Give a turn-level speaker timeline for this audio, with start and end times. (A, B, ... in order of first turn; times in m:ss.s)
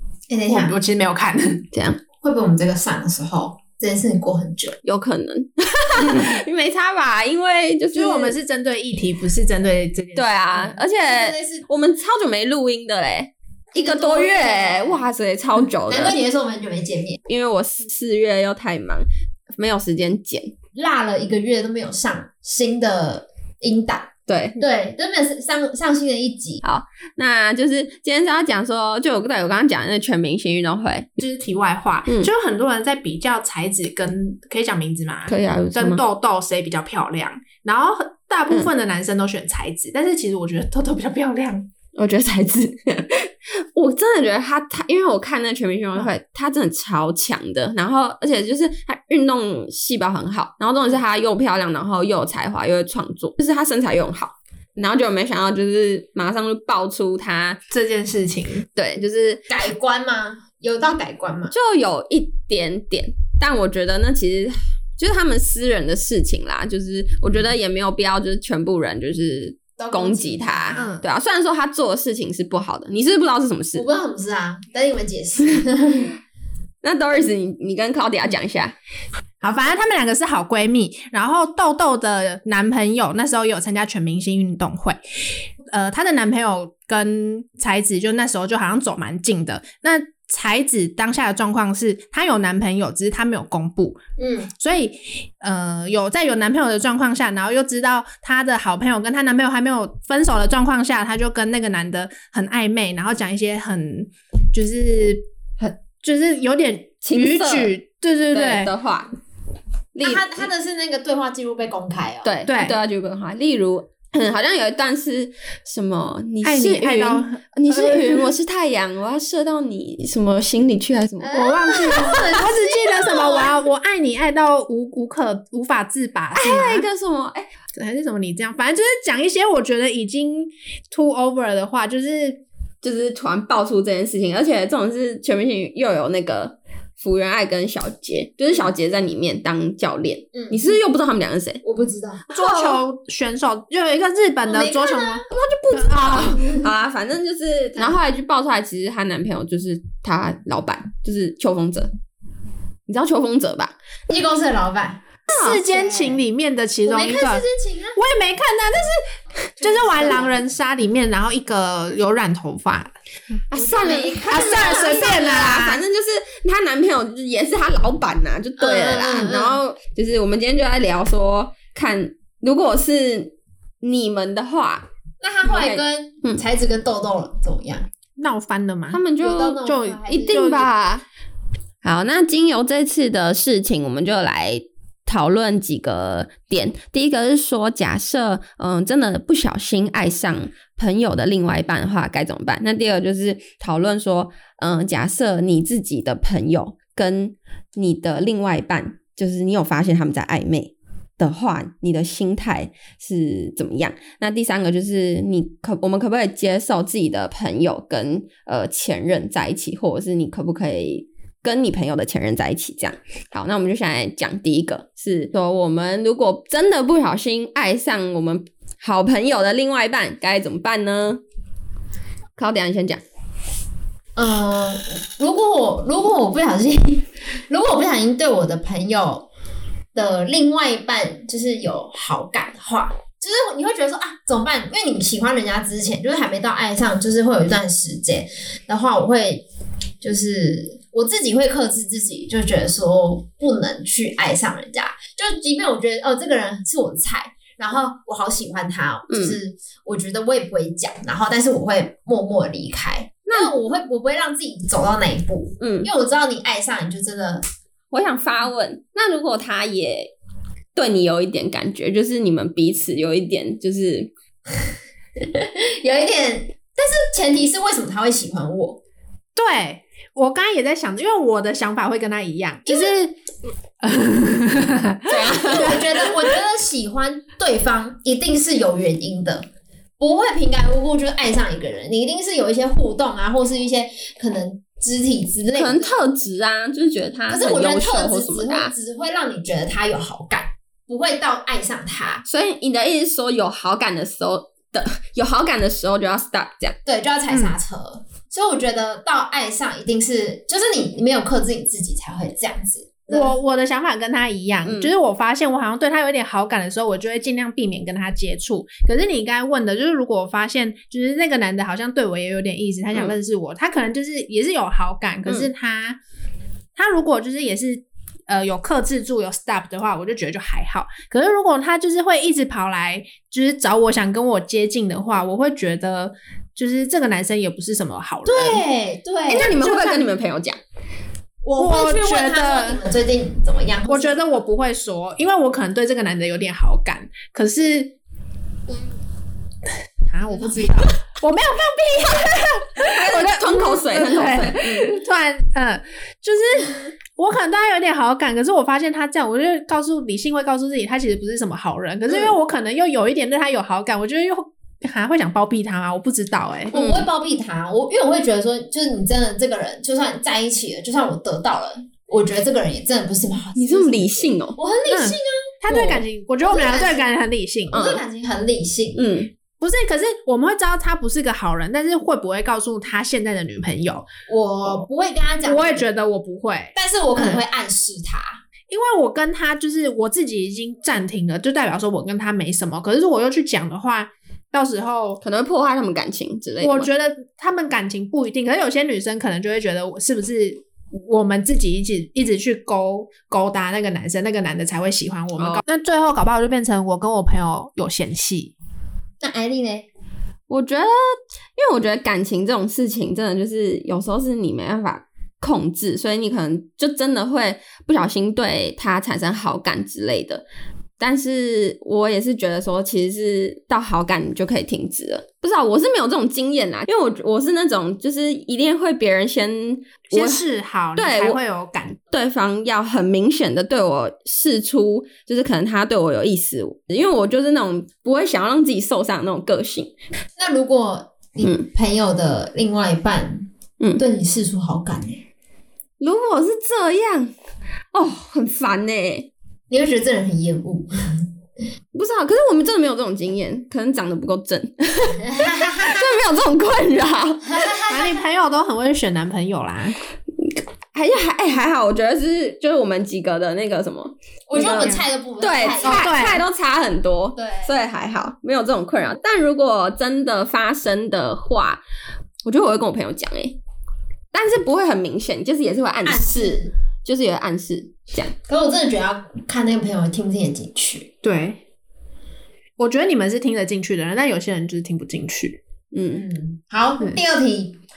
0:00.3-0:00.7 A
0:00.5-0:01.6 B
0:01.7-0:02.0 C
0:02.2-0:04.8 A
0:04.8-0:08.3 C
0:07.9-0:10.8 B
0:10.2-0:16.2 C
0:11.0-0:11.6 A
0:13.7-0:15.0 A
0:15.9-0:17.2 A
0:17.3-0:20.5 C
0:20.7-0:26.6 A
0:24.3-0:24.6 C
0:26.6-0:31.1 C
0:31.2-0:41.7 B
0:35.3-0:36.0 C
0:42.0-0:57.6 C
0:57.7-0:58.6 B
0:58.7-0:59.5 C
0:59.5-1:01.5 A
1:01.5-1:13.8 C
1:09.8-1:11.0 A
1:10.7-1:11.0 B
1:13.7-1:16.1 A
1:16.8-1:18.7 C
1:19.4-1:25.0 B
1:25.7-1:34.0 B
1:34.2-1:34.5 A
1:34.5-1:48.7 B
1:47.0-1:47.7 C
1:48.3-1:49.1 C
1:49.9-1:50.5 C
1:50.0-1:52.3 A
1:52.2-2:01.9 C
1:52.5-1:52.8 B
1:56.4-1:58.3 B
2:01.2-2:03.5 A
2:01.3-2:06.9 B
2:06.3-2:07.5 C
2:07.7-2:12.4 B
2:12.8-2:21.6 C
2:20.3-2:20.6 A
2:21.6-2:22.2 A
2:22.3-2:25.2 B
2:22.3-2:22.8 C
2:24.4-2:25.2 A
2:25.3-2:31.9 C
2:25.7-2:26.4 B
2:26.4-2:26.6 A
2:32.9-2:33.7 C
2:34.1-2:35.0 A
2:35.3-2:37.4 B
2:35.3-2:35.6 C
2:35.5-2:36.2 A
2:36.8-2:38.0 A
2:38.0-2:42.9 B
2:39.6-2:40.3 A
2:43.5-2:54.8 C
2:43.5-2:45.6 A
2:44.2-2:45.8 B
2:48.6-2:49.6 A
2:55.2-2:57.9 A
2:55.4-2:56.4 C
2:58.2-2:59.0 B
2:58.9-3:01.0 C
2:59.2-3:00.6 A
2:59.6-3:00.7 B
3:01.8-3:41.2 C
3:42.4-3:43.0 C
3:44.2-3:49.3 A
3:49.9-3:59.4 A
4:00.0-4:17.4 A
4:09.1-4:09.4 C
4:15.6-4:15.9 C
4:17.9-4:20.1 C
4:20.7-4:24.1 C
4:25.2-4:28.8 A
4:29.4-4:33.2 B
4:33.8-4:35.8 B
4:35.1-4:35.8 C
4:35.2-4:39.5 A
4:40.0-4:45.9 A
4:45.5-4:48.7 C
4:47.3-4:52.2 A
4:52.2-4:56.8 C
4:56.8-5:03.3 A
5:03.1-5:16.0 B
5:04.6-5:04.9 C
5:16.7-5:28.6 B
5:28.2-5:29.5 A
5:29.3-5:30.6 C
5:29.4-5:30.1 B
5:31.4-5:34.2 A
5:31.6-5:32.8 B
5:33.9-5:38.0 B
5:40.1-5:56.7 B
5:42.8-5:44.9 C
5:56.7-6:05.8 A
5:56.7-5:57.1 C
6:03.5-6:04.6 C
6:04.9-6:07.8 B
6:05.7-6:06.0 C
6:06.4-6:07.1 A
6:07.7-6:09.0 A
6:07.7-6:08.0 C
6:09.0-6:09.3 C
6:09.6-6:14.1 B
6:14.3-6:15.8 A
6:15.4-6:17.4 B
6:16.7-6:18.4 A
6:18.7-6:25.2 B
6:25.2-6:26.9 C
6:26.6-6:38.5 B
6:39.2-6:39.9 A
6:40.5-6:50.4 C
6:51.0-7:00.4 C
7:00.1-7:02.0 B
7:01.0-7:01.4 C
7:02.1-7:09.9 C
7:10.4-7:15.2 A
7:16.0-7:17.3 C
7:17.9-7:19.3 C
7:19.7-7:21.3 A
7:21.9-7:27.6 C
7:25.2-7:26.0 A
7:27.4-7:28.2 A
7:27.9-7:30.0 B
7:30.4-7:41.8 C
7:34.5-7:36.1 A
7:34.6-7:35.0 B
7:35.8-7:36.4 B
7:37.4-7:37.7 A
7:42.4-7:43.6 C
7:44.3-7:48.3 C
7:46.0-7:46.7 A
7:48.5-7:51.1 A
7:51.2-7:51.6 B
7:52.8-7:55.6 B
7:55.9-7:56.2 C
7:56.1-7:57.8 A